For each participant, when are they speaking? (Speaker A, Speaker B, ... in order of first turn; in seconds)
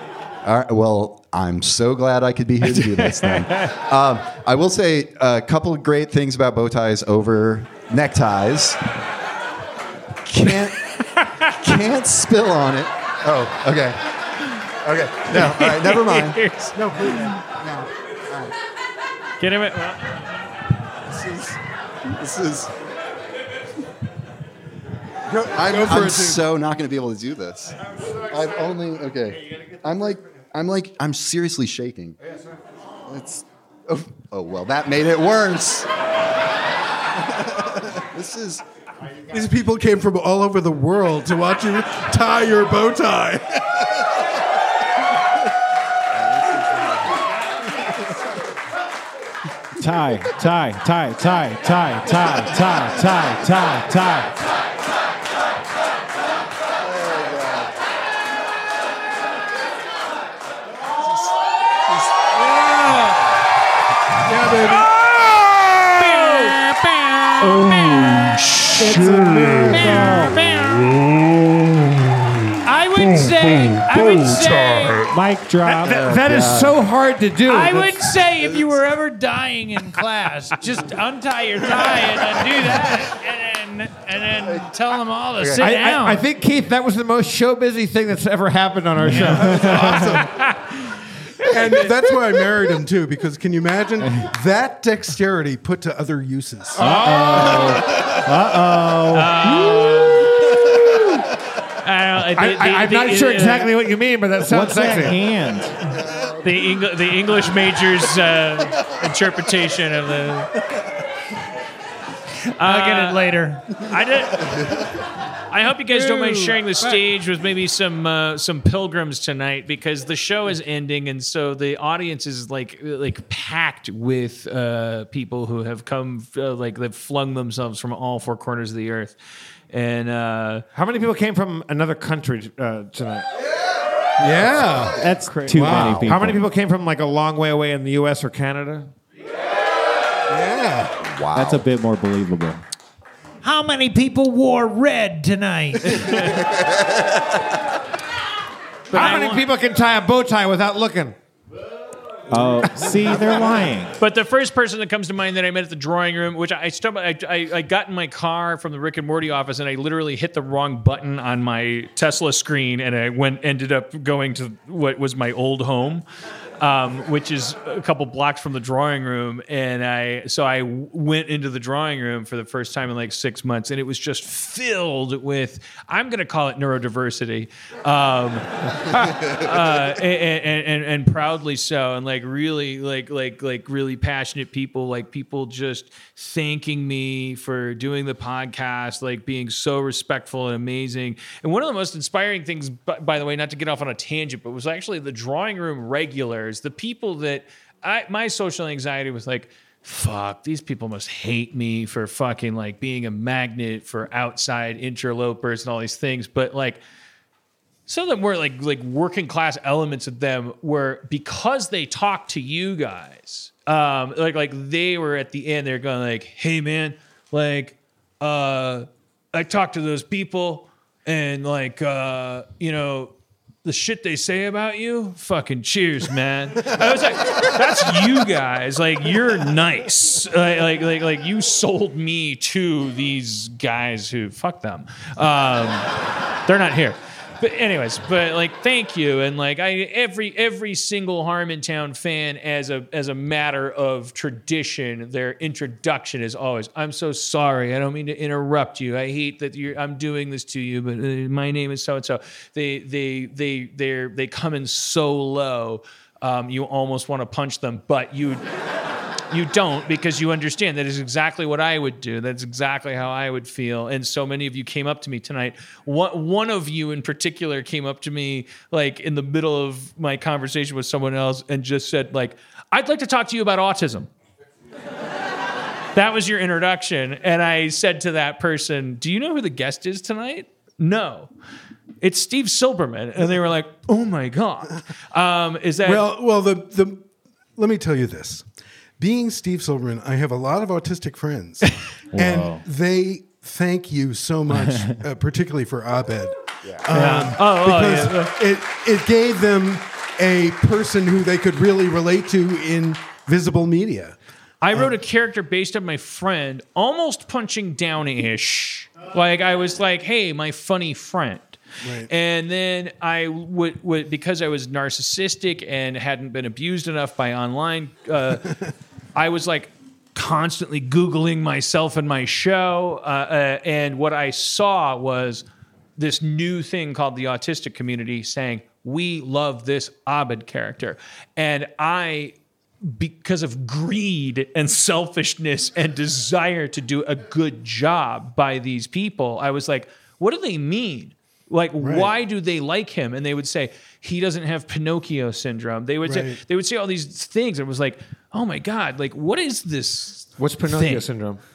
Speaker A: 0.4-8.8, 10.2-10.8, 11.4-14.0, 14.8-16.4, 17.6-18.5, 21.1-21.5, 22.2-22.7, 25.5-27.8, 28.3-32.1, 33.1-35.9, 38.1-38.6, 76.3-76.6, 141.0-141.7
Speaker B: 2.6-3.7, 15.3-17.3, 19.4-20.0, 66.0-66.5, 67.4-68.9, 90.2-90.8, 91.5-91.8, 99.1-100.3, 101.8-103.7, 106.4-110.5, 112.6-114.6, 115.5-129.2, 129.7-130.6, 145.9-146.3, 148.9-149.4, 154.0-166.0, 166.6-206.8, 207.9-223.1, 223.6-235.9, 236.4-258.4, 259.3-274.1, 275.9-281.3, 282.0-286.1, 296.9-298.3, 304.6-318.5, 319.1-325.4, 326.0-351.0
Speaker C: 16.8-17.4, 25.3-26.4, 39.3-43.9, 64.2-64.9, 68.8-69.8, 89.2-90.3, 91.5-97.8, 134.2-136.1, 140.3-140.9, 285.8-287.0, 287.6-288.4, 289.0-304.1, 311.8-312.1, 341.8-342.1, 346.0-346.4
Speaker D: 49.8-54.3, 69.6-70.3, 75.1-76.5, 89.1-89.5, 96.8-99.5, 104.5-105.7, 135.0-136.4, 141.3-142.6, 152.3-153.9, 292.2-292.5
Speaker E: 66.0-68.3, 69.6-71.0, 72.6-75.1, 77.5-86.2, 112.6-113.7, 115.9-117.0, 143.4-146.2, 148.9-149.4
Speaker F: 75.7-78.1, 85.6-90.0, 102.3-105.2, 130.7-133.3, 135.3-138.9, 148.9-151.1, 350.4-351.4